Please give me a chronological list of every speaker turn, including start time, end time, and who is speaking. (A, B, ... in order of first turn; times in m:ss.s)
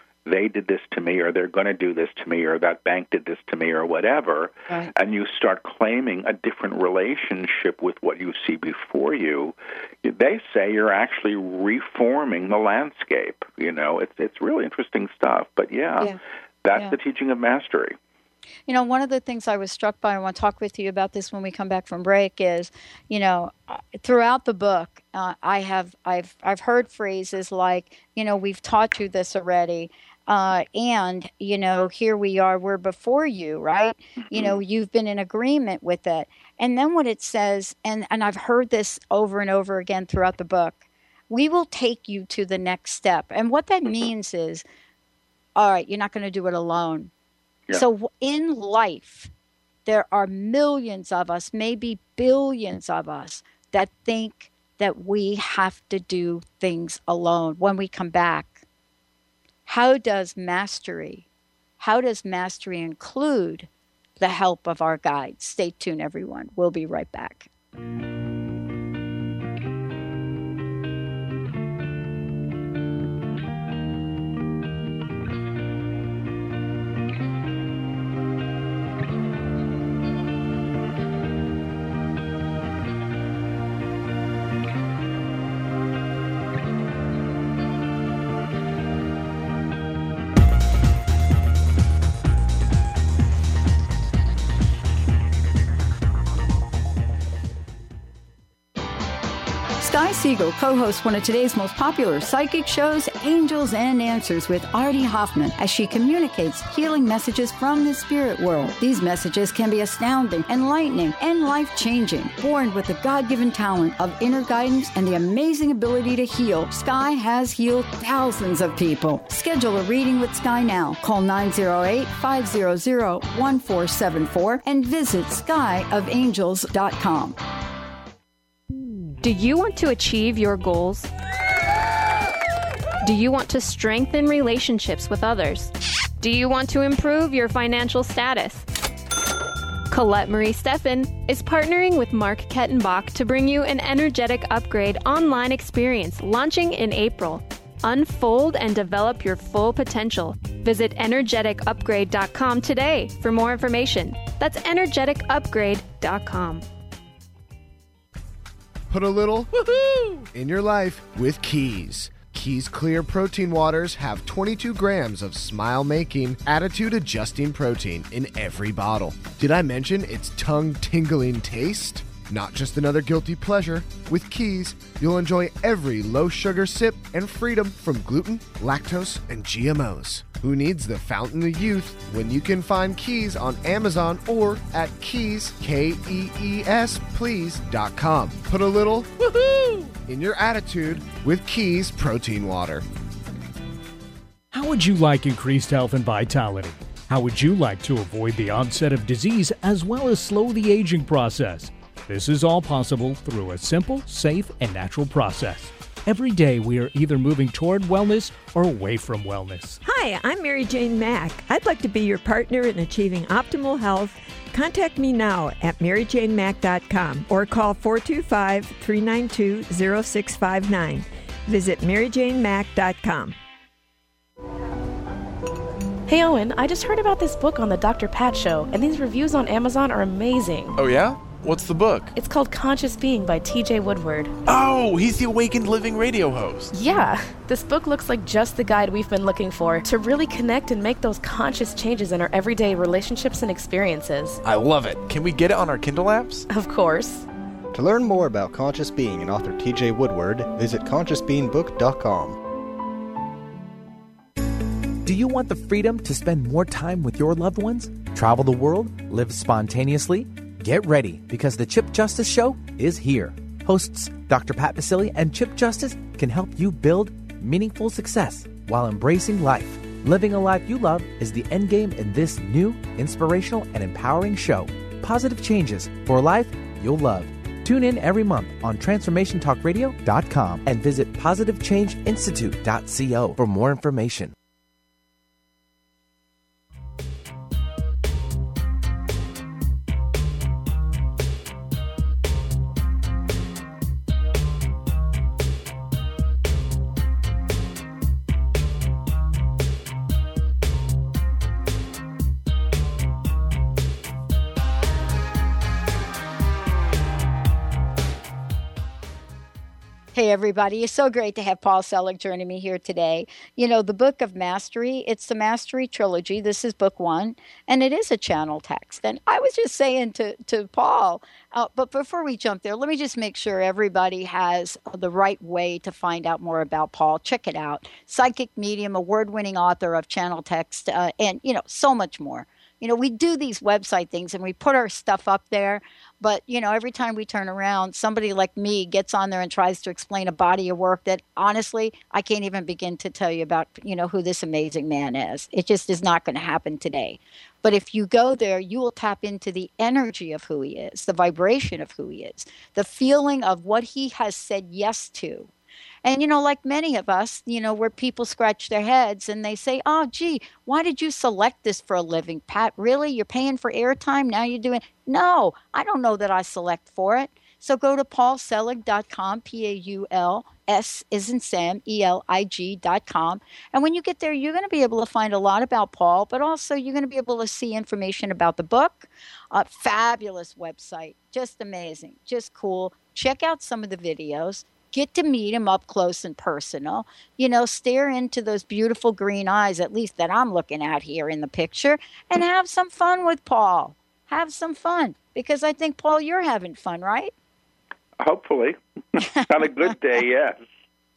0:00.3-0:18.0 A
0:18.7-0:44.6 B
0:34.3-0:34.6 A
0:45.6-0:47.1 B
0:47.7-0:49.3 B
0:49.9-0:58.6 B
0:59.7-1:01.3 B
1:01.8-1:03.7 B
1:04.2-1:07.5 B
1:39.8-2:07.4 B
2:09.2-2:11.1 C
2:13.0-2:18.7 C
2:19.9-2:36.6 C
2:38.9-2:39.5 D
2:40.3-3:09.2 D
3:09.4-3:09.9 E
3:10.0-3:12.8 D
3:14.5-3:29.8 F
3:29.8-3:43.4 G
3:46.1-3:50.8 H
3:50.8-3:52.1 E
3:52.1-3:54.4 H
3:54.4-3:56.7 E
3:56.7-4:04.4 H
4:04.6-4:06.5 E
4:06.5-4:07.3 H
4:07.7-4:12.4 I
4:15.0-4:44.3 J
5:10.1-5:55.5 B
5:56.0-6:37.3 B
6:38.2-6:40.6 A